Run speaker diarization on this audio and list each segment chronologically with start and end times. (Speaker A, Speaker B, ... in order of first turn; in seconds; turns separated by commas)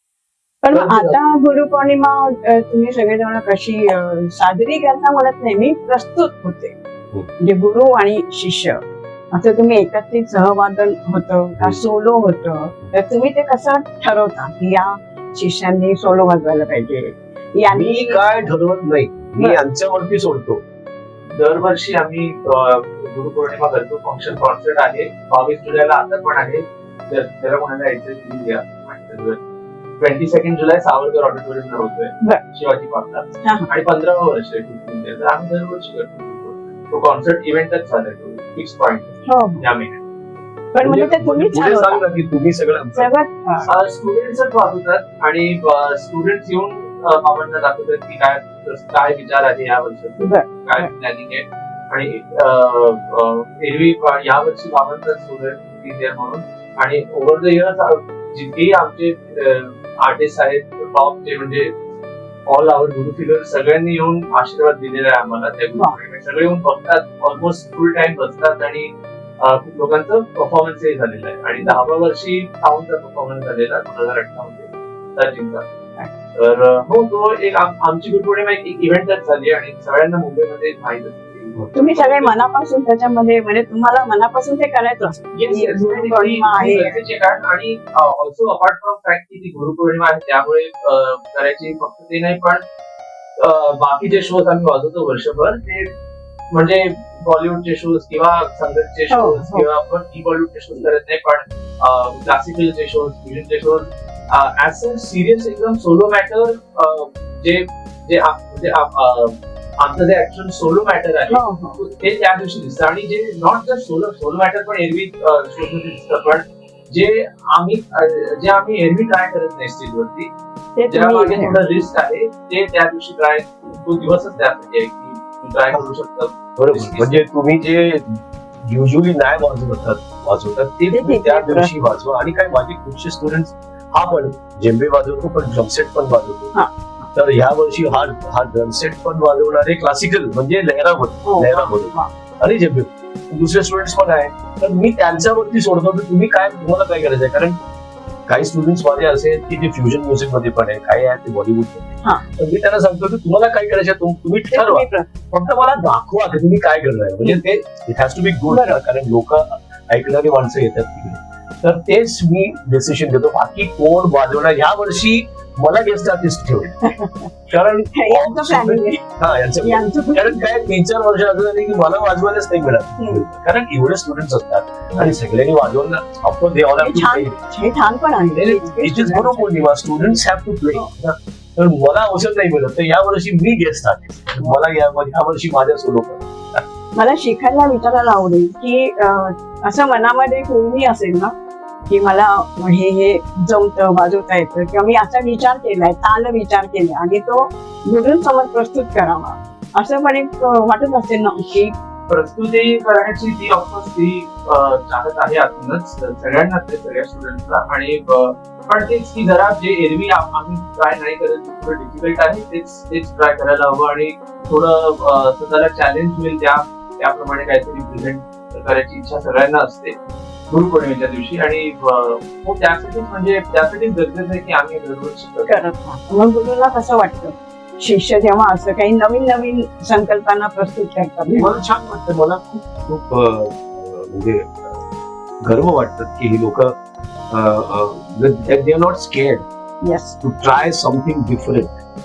Speaker A: 0.6-6.7, Speaker B: 0.7-1.2, Speaker A: 7.4-18.5, Speaker B: 17.7-20.6, Speaker C: 21.3-29.4, Speaker C: 30.0-40.0, Speaker A: 33.4-33.7, Speaker A: 39.3-39.6, Speaker A: 40.7-42.0, Speaker B: 40.8-43.1, Speaker A: 42.9-43.7, Speaker C: 43.7-61.7, Speaker A: 50.2-50.9, Speaker C: 62.5-75.7, Speaker C: 76.3-82.3, Speaker A: 81.7-87.0, Speaker C: 85.3-92.6, Speaker C: 93.4-95.9, Speaker C: 96.5-120.3, Speaker A: 99.1-99.7, Speaker A: 111.3-111.8, Speaker A: 120.8-121.7, Speaker C: 120.9-127.2, Speaker B: 126.6-136.5, Speaker A: 130.9-131.8, Speaker B: 137.1-147.6, Speaker A: 141.2-142.1, Speaker B: 148.3-166.8, Speaker A: 154.5-155.1, Speaker A: 158.5-158.8, Speaker A: 166.8-167.3, Speaker B: 167.5-177.4, Speaker A: 167.9-169.0, Speaker A: 169.6-170.4, Speaker A: 173.0-173.2, Speaker A: 176.8-179.5, Speaker B: 178.3-186.6, Speaker A: 187.0-191.3, Speaker A: 191.9-201.7, Speaker C: 202.1-220.0, Speaker C: 220.5-225.6, Speaker A: 225.5-231.6, Speaker B: 231.3-234.8, Speaker B: 235.4-236.8, Speaker B: 237.3-239.4, Speaker A: 239.8-240.2, Speaker B: 240.2-241.8